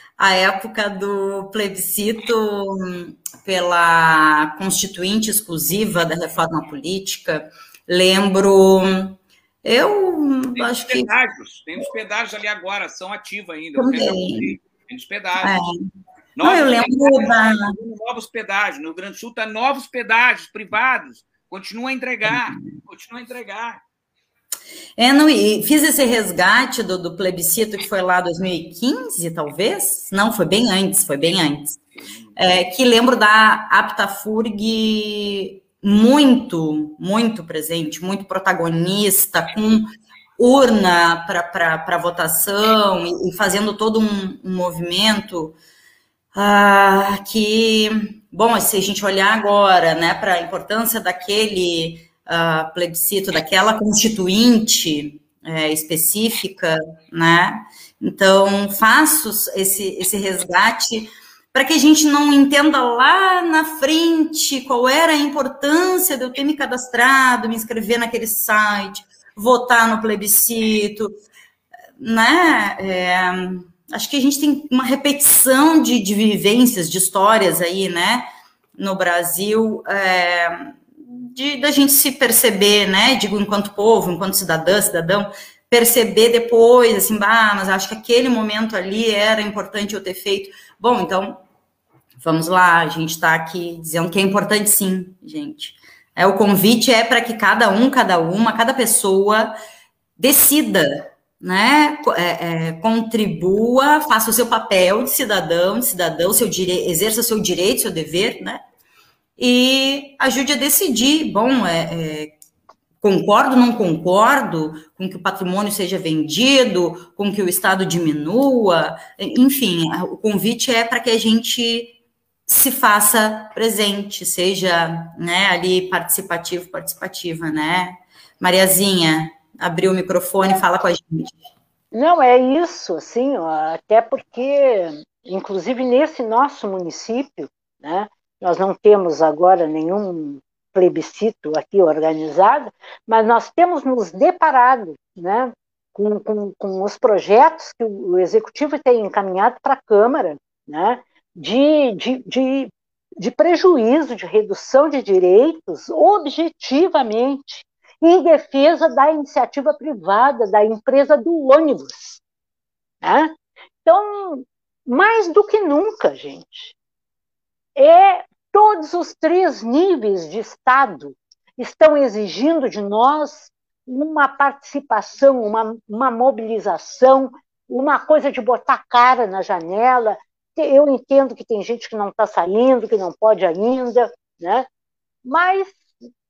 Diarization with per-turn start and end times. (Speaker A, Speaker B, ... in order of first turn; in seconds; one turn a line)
Speaker A: 0.2-11.1
Speaker B: 10.5-15.6
Speaker A: 13.8-14.6
Speaker A: 15.4-15.8
Speaker B: 16.4-23.8
Speaker A: 16.4-17.8
Speaker A: 22.3-22.6
Speaker A: 25.0-31.8
Speaker B: 32.0-32.4
Speaker A: 32.4-45.6
Speaker A: 46.3-71.1
Speaker A: 72.0-78.2
Speaker A: 78.8-91.4
Speaker A: 92.2-99.5
Speaker A: 100.2-108.6
Speaker A: 109.4-112.3
Speaker A: 113.0-122.0
Speaker A: 122.5-131.4
Speaker C: 131.9-162.2
Speaker C: 163.0-163.3
Speaker C: 163.8-166.7
Speaker C: 167.8-184.7
Speaker C: 185.2-185.9